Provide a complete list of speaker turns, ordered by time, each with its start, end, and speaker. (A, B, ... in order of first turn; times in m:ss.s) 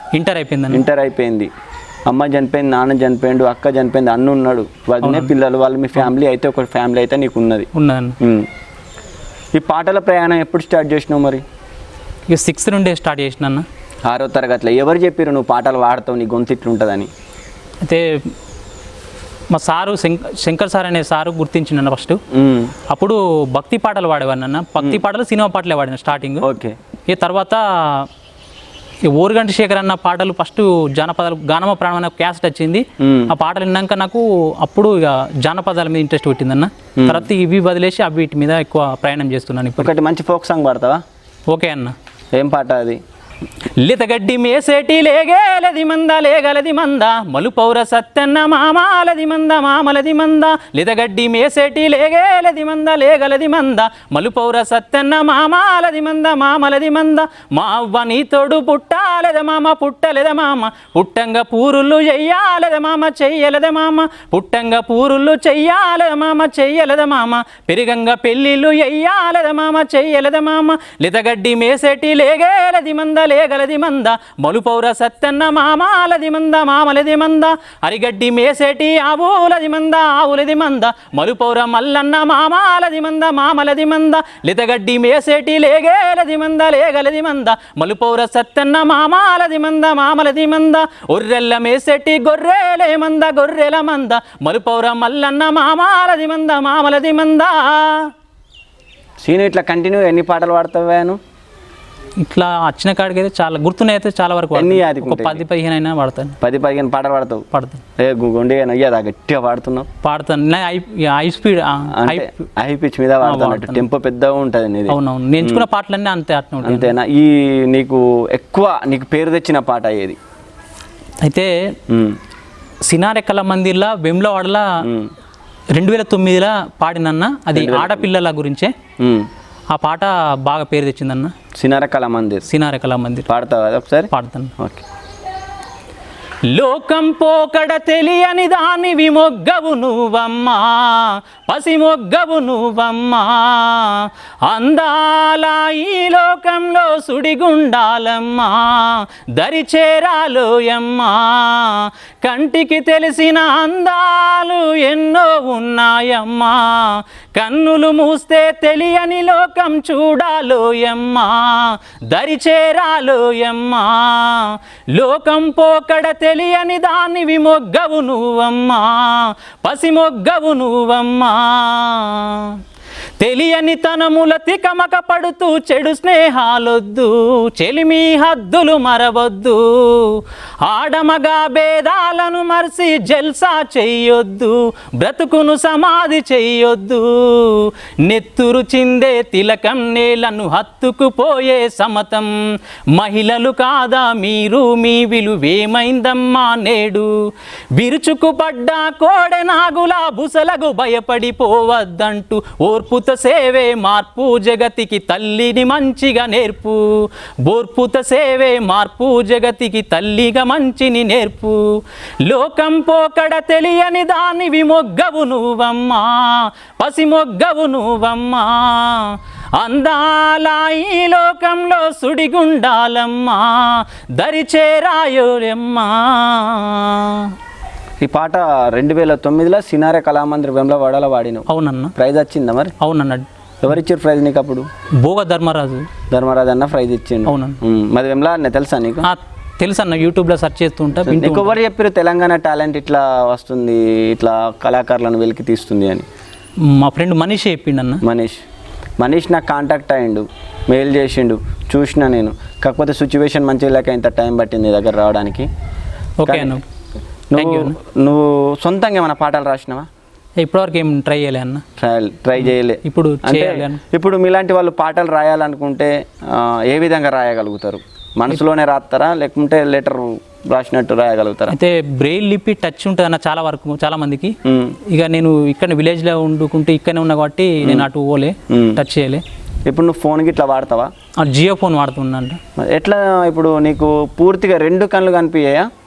0:00.1-0:00.8 A
0:00.7-0:01.5 B
0:02.1-0:07.7 B
0:05.0-0:05.3 A
0:07.7-0:08.2 A
0:08.2-0:08.5 B
0:09.5-0:11.4 B
0:12.3-0:13.6 A
0:14.1-0:17.1 B
0:17.8-0:18.3 A
0:19.5-0:22.2 A
0:22.3-0:22.7 B
0:22.9-0:26.4 A
0:26.4-0:26.8 B
0:27.1-0:28.1 A
0:29.1-0:39.9 A
0:33.0-0:33.3 B
0:37.0-0:37.3 B
0:39.8-0:41.0 B
0:41.5-0:41.9 A
0:42.3-0:43.0 B
0:43.8-1:38.1 A
1:39.2-1:41.2 B
1:42.2-1:46.4 A
1:44.5-1:45.4 B
1:46.4-1:47.4 B
1:47.5-1:47.8 A
1:48.0-1:49.9 B
1:50.0-1:52.3 A
1:51.9-1:55.6 B
1:53.2-1:53.8 A
1:54.9-1:56.9 A
1:56.6-2:00.2 B
2:01.2-2:01.5 A
2:01.9-2:02.2 B
2:02.9-2:04.8 A
2:04.8-2:05.1 B
2:05.7-2:08.7 A
2:07.5-2:08.1 B
2:09.0-2:09.3 B
2:09.7-2:11.3 A
2:11.6-2:12.4 B
2:12.4-2:13.3 A
2:13.3-2:14.8 B
2:14.1-2:14.5 A
2:16.5-2:52.6 A
2:53.2-3:12.4 A
3:12.9-3:17.1 A
3:17.8-3:31.6 A
3:32.2-3:47.3 A
3:48.0-3:52.7 B
3:51.5-3:51.9 A
3:52.8-3:53.2 A
3:53.6-3:54.7 B
3:55.0-3:55.9 A
3:56.1-3:59.1 B
3:57.2-3:57.6 A
3:59.0-4:01.6 A
4:01.0-4:06.0 B
4:06.6-4:08.0 A
4:08.0-4:08.4 B
4:09.0-4:15.5 B
4:16.2-4:16.6 A
4:16.3-4:16.6 B
4:17.3-4:19.9 B
4:17.4-4:17.8 A
4:20.4-4:21.6 A
4:21.8-4:31.5 B
4:22.4-4:23.8 A
4:31.5-4:34.4 A
4:34.4-4:34.8 B
4:34.9-4:39.2 A
4:38.5-4:38.8 B
4:39.7-4:40.9 B
4:41.2-4:42.4 A
4:42.6-4:45.7 B